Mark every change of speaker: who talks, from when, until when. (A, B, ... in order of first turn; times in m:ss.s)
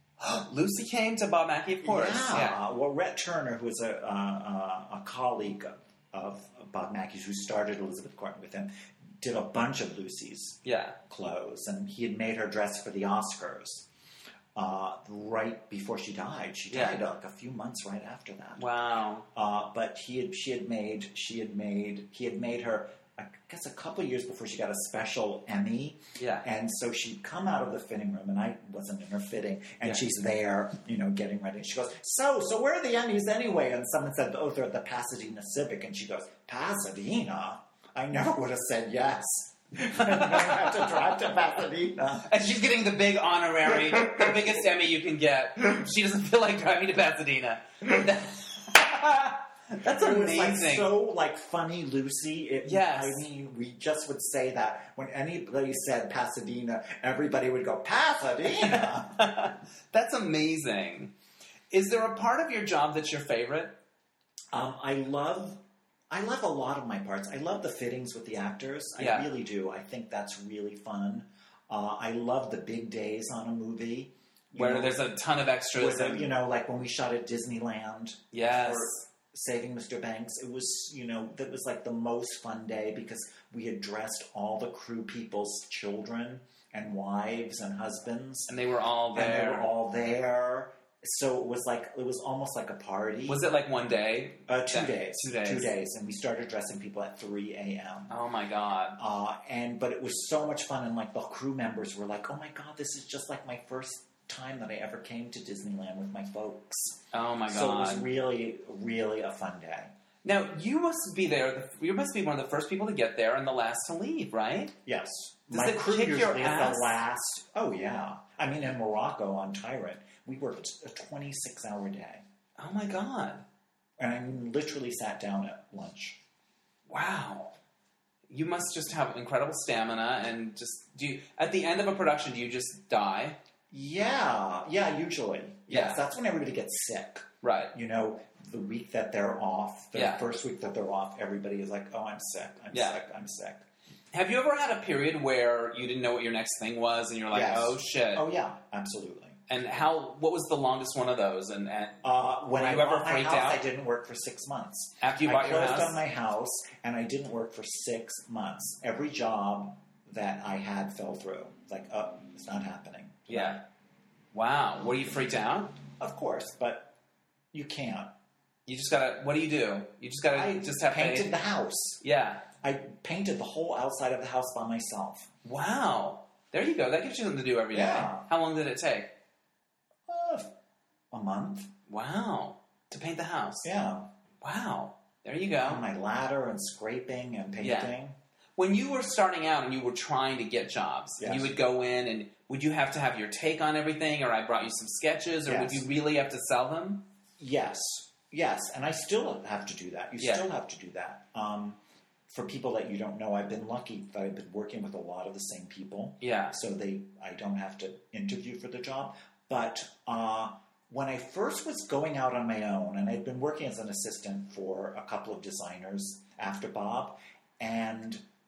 0:00.2-0:02.6 A
0:01.8-0:13.9 B
0:10.6-0:11.0 A
0:14.5-0:18.6 B
0:16.7-0:17.0 A
0:18.6-0:19.3 A
0:19.3-0:42.3 B
0:26.2-0:26.4 A
0:39.9-0:41.2 A
0:42.2-0:50.9 A
0:49.8-0:59.2 B
0:52.6-0:53.2 A
0:58.4-1:01.1 A
1:01.7-1:03.8 A
1:04.5-1:15.0 B
1:09.0-1:09.3 A
1:14.5-1:16.3 A
1:15.7-1:28.5 B
1:18.3-1:19.0 A
1:28.5-1:29.7 A
1:29.1-1:33.4 B
1:33.2-1:35.7 A
1:34.5-1:38.1 B
1:38.1-1:39.0 A
1:39.0-1:49.9 B
1:47.1-1:48.1 A
1:50.2-1:54.7 A
1:54.8-2:02.2 B
1:55.5-1:57.0 A
2:02.6-2:03.4 A
2:04.0-2:06.2 B
2:06.9-2:07.5 A
2:08.3-2:13.4 A
2:13.7-2:23.6 B
2:15.7-2:16.0 A
2:17.4-2:17.7 A
2:19.9-2:20.2 A
2:22.7-2:23.0 A
2:24.1-2:28.2 A
2:27.3-2:29.4 B
2:29.5-2:32.0 A
2:32.0-2:43.6 B
2:32.5-2:33.6 A
2:35.0-2:36.0 A
2:43.3-2:43.6 A
2:44.3-2:45.8 A
2:46.0-2:46.9 B
2:47.5-2:48.1 B
2:48.6-2:51.3 A
2:50.3-2:52.0 B
2:52.0-2:52.4 A
2:52.6-2:55.3 B
2:55.4-2:59.1 A
2:57.7-2:58.3 B
3:00.1-3:00.5 B
3:01.1-3:01.7 B
3:01.9-3:03.7 A
3:03.6-3:04.1 B
3:04.4-3:05.8 A
3:05.6-3:08.2 B
3:07.6-3:07.9 A
3:08.6-3:17.0 A
3:11.2-3:11.5 B
3:15.4-3:15.8 B
3:17.4-3:38.2 B
3:20.2-3:20.4 A
3:26.2-3:26.6 A